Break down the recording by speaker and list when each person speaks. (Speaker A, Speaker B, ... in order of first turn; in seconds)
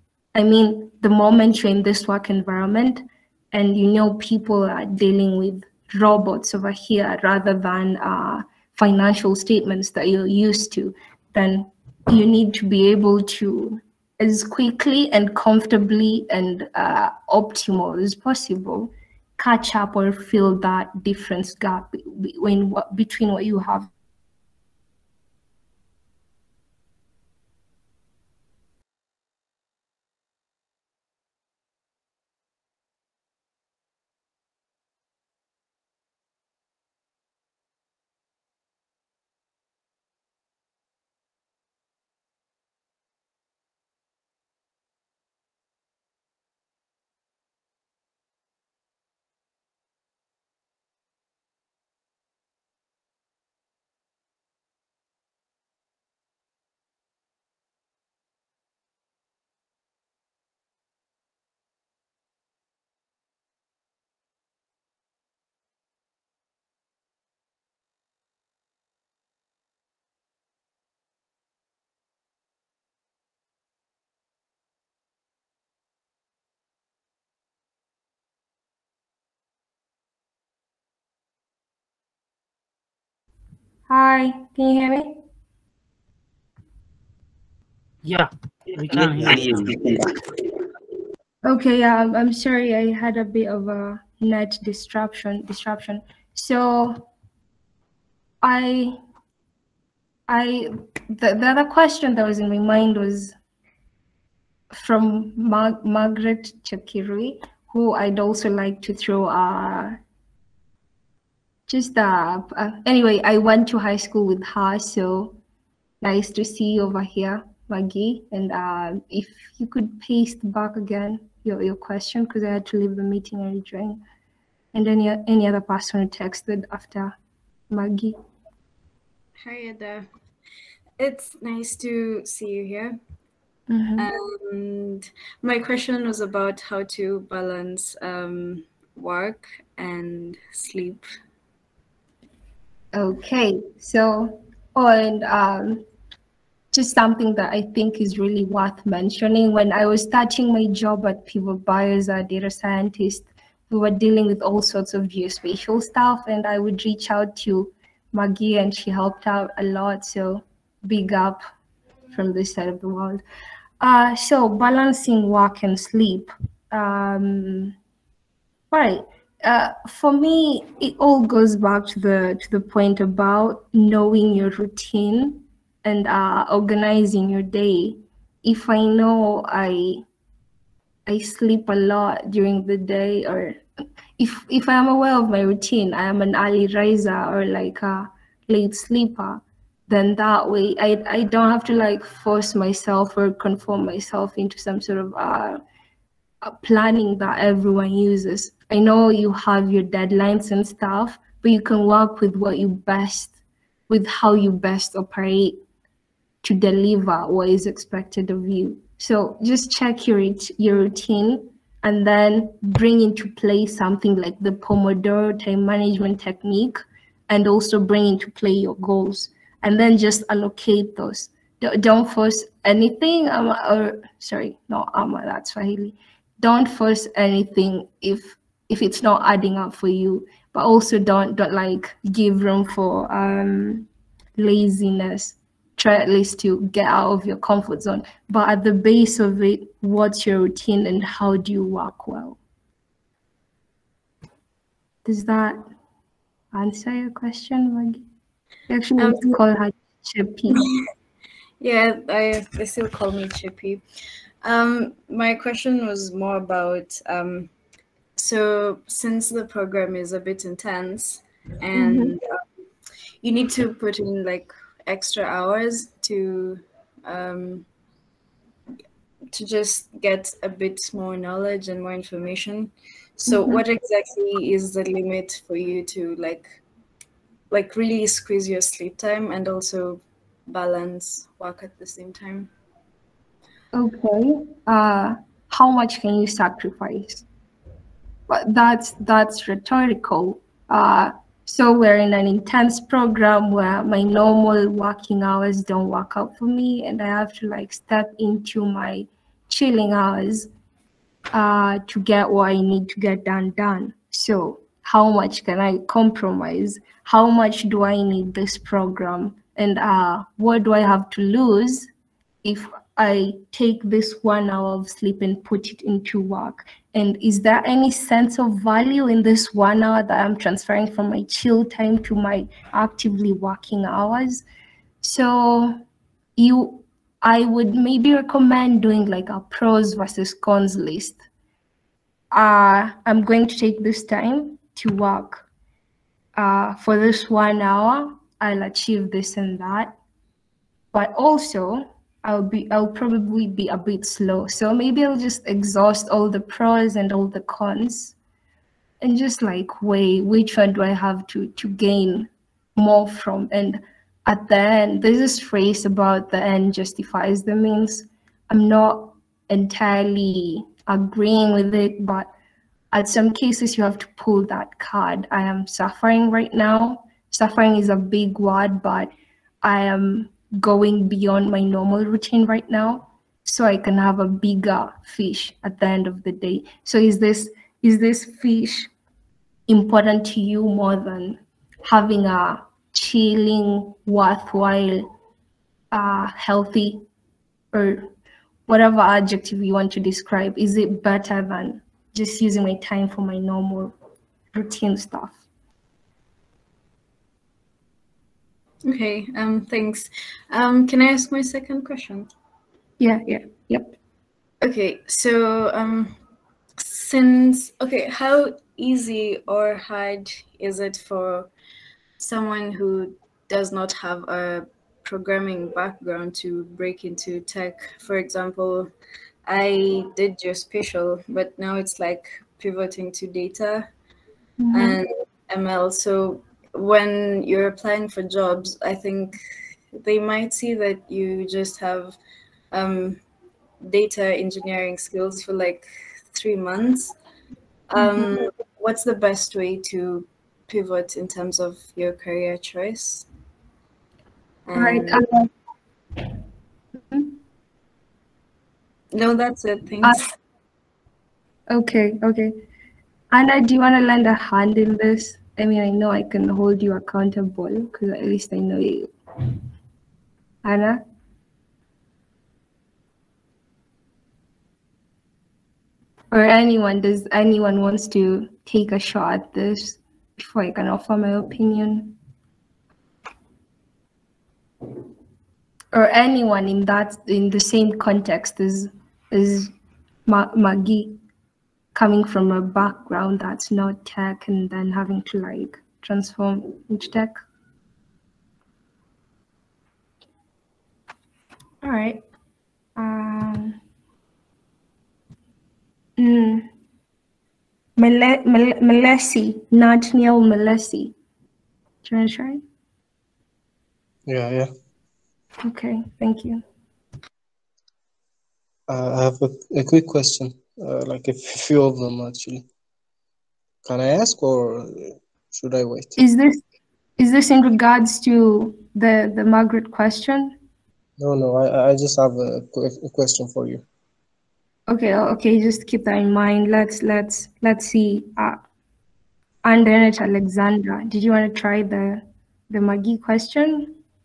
Speaker A: 0.3-23.9, 83.9-85.1, 91.5-97.0, 98.4-99.0, 100.3-103.3, 104.7-110.0, 111.7-115.3, 116.0-124.0, 124.7-127.2, 127.7-128.2, 133.7-134.1, 142.9-145.8, 146.7-161.4, 162.1-163.2, 163.8-167.8, 168.7-180.0, 181.1-183.6, 184.2-195.6, 196.4-203.3, 203.9-205.6, 206.4-242.4, 245.1-245.6, 246.5-248.0, 248.7-250.7, 261.8-262.1, 273.3-273.6, 283.7-287.2, 288.3-300.5, 301.3-311.9, 312.4-324.4, 325.0-325.8, 326.4-331.2, 332.3-335.5, 336.4-340.0, 340.9-348.1, 349.0-362.3, 362.9-369.1, 369.6-378.9, 379.7-385.1, 385.9-387.0, 387.7-388.1, 388.7-393.9, 394.5-395.4, 403.0-403.9, 424.6-425.0, 438.0-438.5, 444.8-445.5, 451.7-452.5, 453.3-459.5, 460.6-461.0, 466.3-472.1, 475.9-479.7, 480.3-481.2, 481.9-487.4, 491.8-492.2, 493.0-493.8, 496.2-496.7, 498.0-501.1, 502.0-502.6, 505.6-506.6, 516.2-516.6, 517.2-520.6, 524.9-528.6, 529.6-534.0
Speaker B: 88.0-90.1
Speaker C: 129.4-130.1, 131.0-133.0, 134.0-141.1, 249.0-249.4, 251.6-253.8, 254.4-257.5, 258.2-262.3, 263.2-267.7, 269.3-276.6, 277.5-282.5, 398.9-402.3, 404.6-406.1, 406.8-411.5, 412.2-418.9, 419.5-423.9, 424.7-429.4, 429.9-432.2, 432.7-433.2, 433.8-437.2, 437.9-443.3, 444.7-445.2, 449.1-450.3
Speaker D: 504.3-504.7, 508.9-512.6, 513.9-516.2, 521.2-523.8